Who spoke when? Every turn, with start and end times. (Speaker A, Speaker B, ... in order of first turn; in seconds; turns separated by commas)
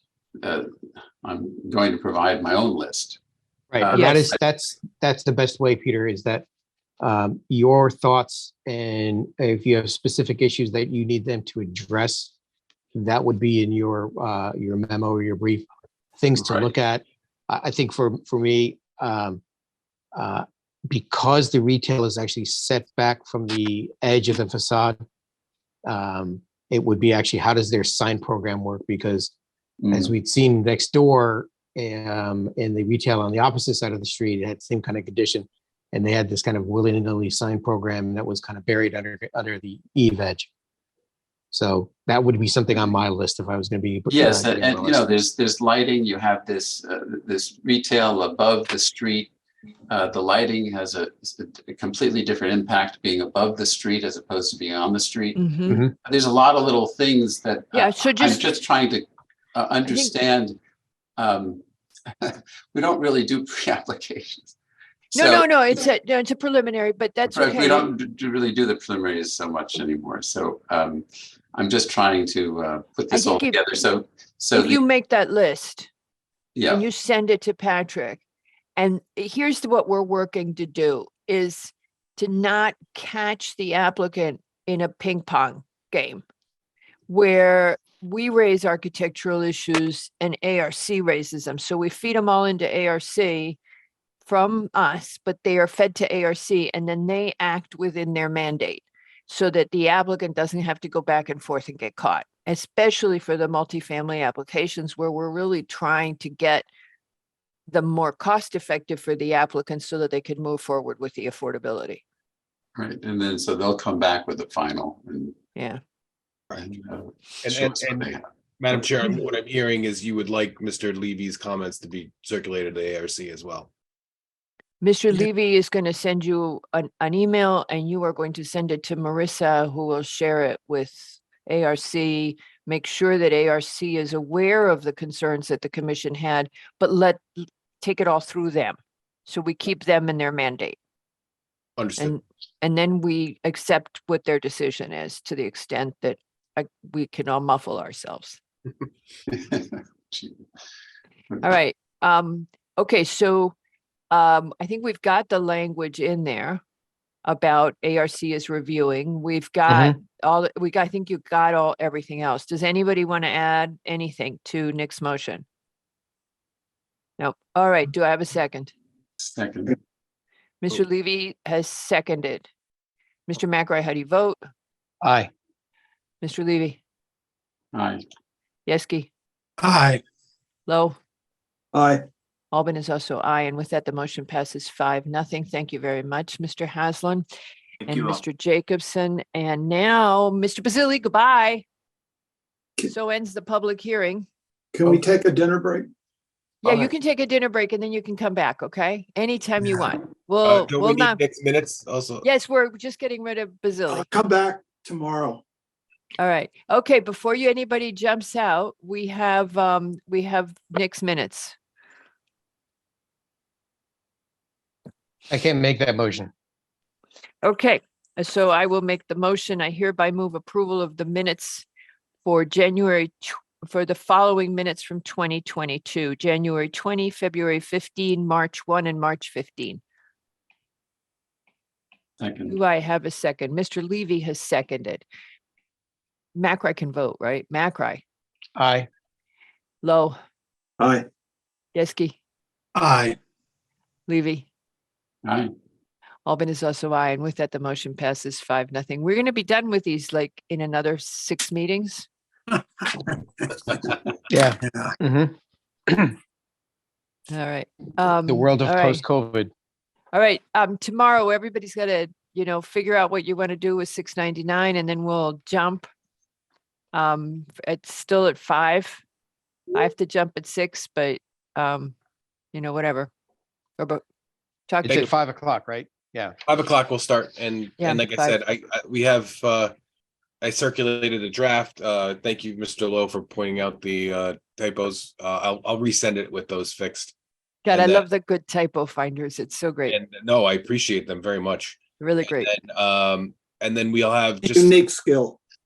Speaker A: 0.4-0.7, Speaker A: 1.2-3.2, Speaker B: 3.7-6.5, Speaker A: 3.8-4.4, Speaker C: 3.9-4.2, Speaker B: 7.0-12.3, Speaker B: 12.9-15.7, Speaker B: 16.2-19.4, Speaker A: 16.4-16.7, Speaker B: 20.1-25.0, Speaker B: 25.9-29.3, Speaker A: 29.8-30.1, Speaker B: 29.9-40.5, Speaker B: 41.5-45.0, Speaker A: 44.1-49.3, Speaker A: 49.9-55.4, Speaker C: 55.4-55.8, Speaker A: 56.0-60.6, Speaker C: 57.7-58.5, Speaker C: 59.9-60.1, Speaker A: 61.2-61.6, Speaker A: 62.2-64.5, Speaker A: 65.1-65.5, Speaker C: 65.1-67.9, Speaker A: 67.3-74.8, Speaker C: 73.1-73.6, Speaker C: 74.5-75.9, Speaker A: 76.5-76.8, Speaker C: 76.7-78.2, Speaker C: 78.8-86.2, Speaker C: 87.1-93.6, Speaker C: 94.2-106.7, Speaker C: 107.7-112.0, Speaker A: 112.8-115.3, Speaker A: 116.5-118.2, Speaker D: 117.4-123.7, Speaker C: 124.8-137.2, Speaker C: 137.8-140.8, Speaker D: 141.8-142.1, Speaker C: 142.0-148.4, Speaker A: 149.3-150.4, Speaker C: 151.4-153.5, Speaker C: 154.1-156.6, Speaker C: 157.2-165.4, Speaker B: 159.7-160.0, Speaker C: 167.2-168.7, Speaker A: 169.3-169.8, Speaker C: 170.6-172.5, Speaker C: 173.3-174.4, Speaker B: 175.0-175.3, Speaker C: 176.2-176.8, Speaker A: 177.7-178.0, Speaker C: 178.7-179.1, Speaker E: 179.6-180.0, Speaker C: 180.7-180.9, Speaker E: 181.7-182.0, Speaker C: 182.5-187.2, Speaker C: 187.8-191.6, Speaker C: 192.8-194.3, Speaker E: 194.7-195.9, Speaker C: 196.6-201.2, Speaker D: 200.4-202.2, Speaker C: 202.2-204.1, Speaker E: 203.9-205.4, Speaker C: 206.2-211.5, Speaker B: 215.3-216.3, Speaker C: 217.4-221.6, Speaker C: 222.2-229.8, Speaker A: 232.2-232.6, Speaker C: 232.5-235.0, Speaker C: 236.3-238.0, Speaker B: 238.6-238.9, Speaker C: 239.8-240.2, Speaker E: 240.8-241.1, Speaker C: 241.7-242.2, Speaker E: 242.7-243.2, Speaker C: 244.1-244.5, Speaker A: 245.2-245.5, Speaker C: 246.2-252.1, Speaker B: 254.3-255.3, Speaker B: 255.9-256.1, Speaker C: 257.3-259.0, Speaker B: 258.2-259.5, Speaker C: 260.1-265.9, Speaker C: 266.9-269.0, Speaker C: 269.7-271.9, Speaker C: 272.5-273.1, Speaker C: 274.7-275.1, Speaker B: 274.8-276.4, Speaker D: 276.5-279.7, Speaker C: 277.8-278.4, Speaker D: 280.4-287.1, Speaker C: 287.6-289.9, Speaker D: 287.7-288.0, Speaker D: 289.9-294.7, Speaker C: 292.0-292.5, Speaker E: 294.4-295.4